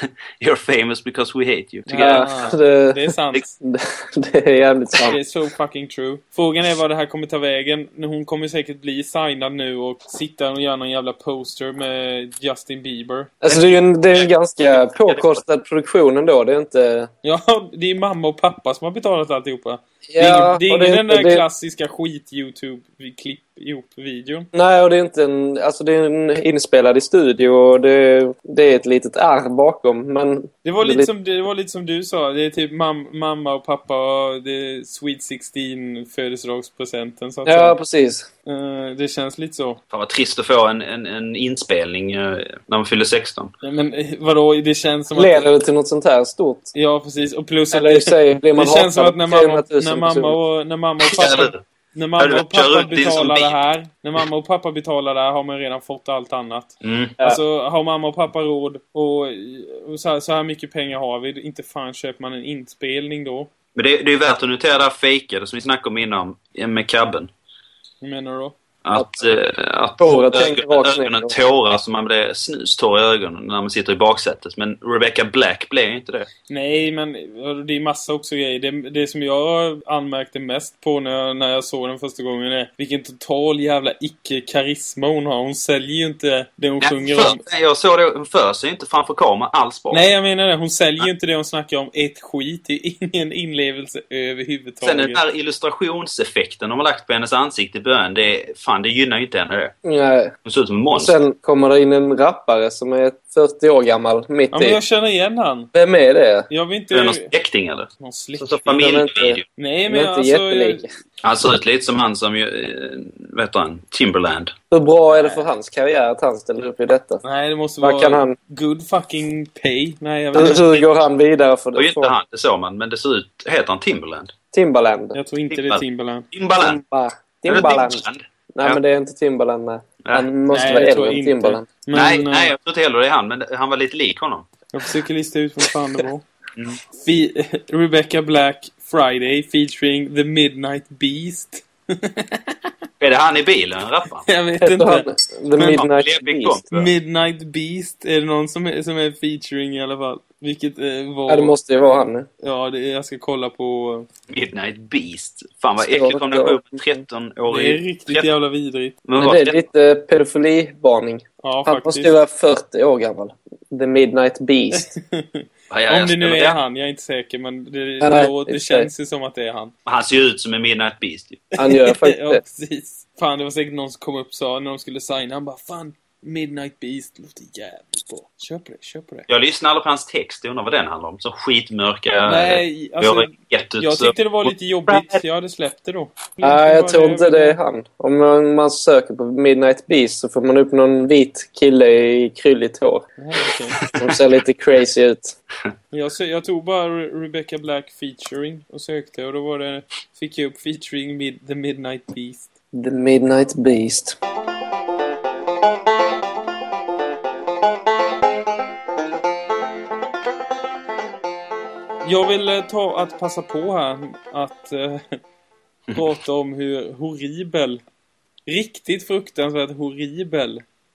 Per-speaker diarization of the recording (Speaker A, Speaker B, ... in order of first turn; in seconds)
Speaker A: 0.4-2.2, 13.5-15.4, 39.9-43.5, 51.1-51.6, 52.2-53.5, 56.8-57.2, 63.7-67.3, 68.8-76.3, 86.8-90.1, 94.8-99.7, 100.4-101.1, 106.9-109.4, 111.2-114.5, 120.3-120.8, 121.8-124.3, 125.5-126.8, 127.5-128.8, 131.9-134.5, 143.0-144.2, 145.6-146.9, 154.3-158.3, 159.1-159.6, 165.7-166.6, 169.8-171.4, 179.3-185.2, 193.8-194.2
Speaker B: 1.9-3.5, 5.0-13.3, 17.2-24.5, 30.6-37.8, 38.5-39.8, 43.6-45.5, 46.7-63.5, 68.0-68.5, 76.5-87.4, 89.9-95.2, 104.5-105.7, 106.5-107.3, 108.0-108.8, 109.6-110.8, 115.1-115.5, 117.2-120.7, 125.1-126.3, 130.5-132.5, 134.7-136.2, 136.9-142.7, 144.2-145.1, 146.7-151.6, 152.4-154.1, 157.5-159.0, 161.4-162.1, 164.7-169.7, 171.6-179.3, 182.2-187.6, 193.2-193.8, 195.9-202.5, 212.0-215.2, 215.9-217.8, 218.5-220.6
Speaker C: 2.0-3.0, 3.6-5.2, 13.4-17.1, 20.1-21.4, 24.5-31.1, 37.4-38.3, 45.1-46.7, 47.7-50.4, 70.0-71.3, 99.8-100.3, 100.9-104.8, 105.7-106.5, 108.8-110.9, 114.7-117.2, 117.8-118.3, 120.3-122.1, 124.5-125.2, 126.6-128.0, 128.5-131.7, 144.6-146.6, 151.3-152.3, 155.8-156.8, 159.2-164.9, 168.0-168.9, 171.6-172.4, 186.4-193.0, 193.9-195.3, 202.7-204.2